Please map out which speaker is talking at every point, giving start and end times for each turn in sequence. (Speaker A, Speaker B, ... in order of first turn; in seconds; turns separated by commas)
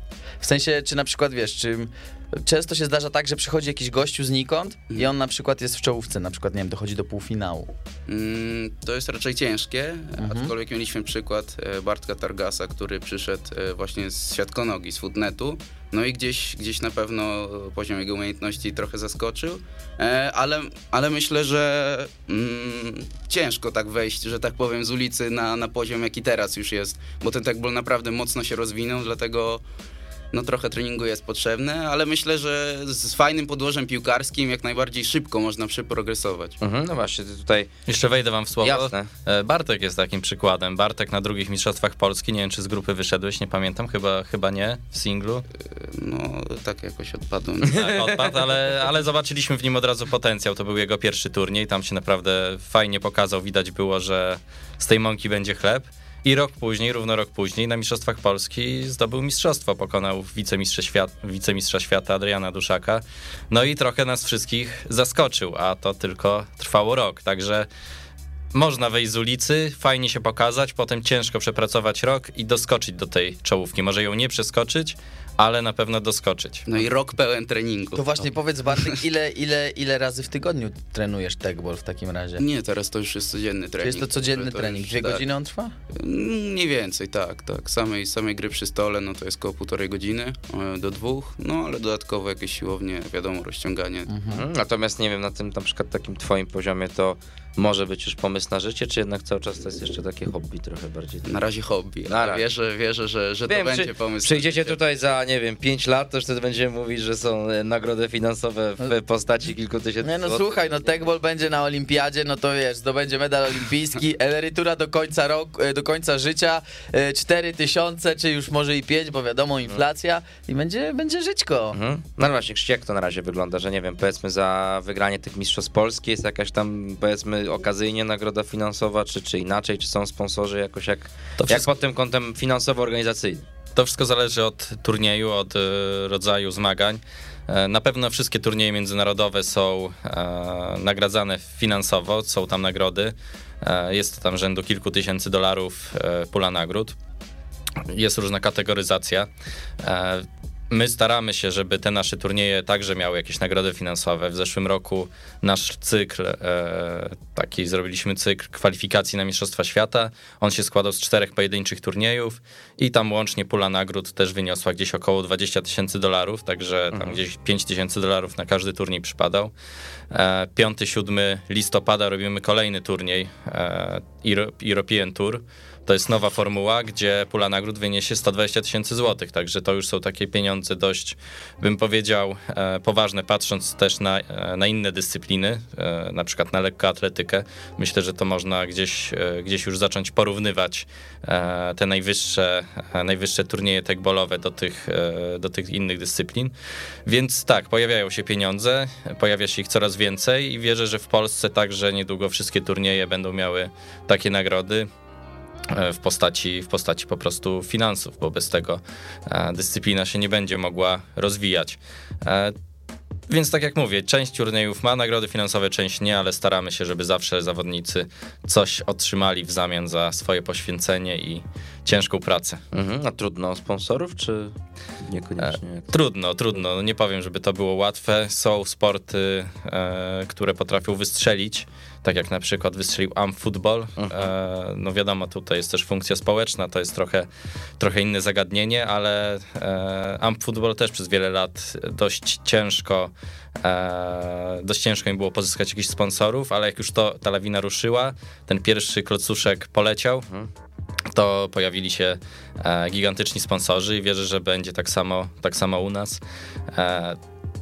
Speaker A: 0.4-7.7, Speaker B: 8.1-29.6, Speaker A: 10.2-10.5, Speaker B: 30.3-36.6, Speaker C: 36.6-37.7, Speaker D: 37.9-45.4, Speaker C: 38.6-39.1, Speaker B: 45.7-48.2, Speaker D: 47.7-67.7, Speaker D: 68.5-76.7, Speaker B: 76.7-78.2, Speaker A: 77.9-82.4, Speaker B: 82.4-85.2, Speaker A: 83.8-85.7, Speaker B: 85.9-94.1, Speaker A: 94.1-94.4, Speaker C: 94.3-101.3, Speaker B: 101.3-104.8, Speaker C: 102.0-102.4, Speaker C: 103.5-110.4, Speaker A: 110.0-121.8, Speaker C: 121.7-133.4, Speaker D: 131.4-131.7, Speaker D: 133.7-146.9, Speaker D: 147.9-149.3, Speaker D: 149.8-169.5, Speaker C: 166.9-167.2, Speaker D: 170.1-196.5, Speaker D: 197.1-204.9, Speaker D: 205.7-212.5, Speaker D: 213.3-222.6, Speaker C: 222.7-225.9, Speaker D: 225.4-237.3, Speaker C: 234.0-234.3, Speaker D: 237.8-250.3, Speaker D: 251.1-256.2, Speaker D: 256.7-257.2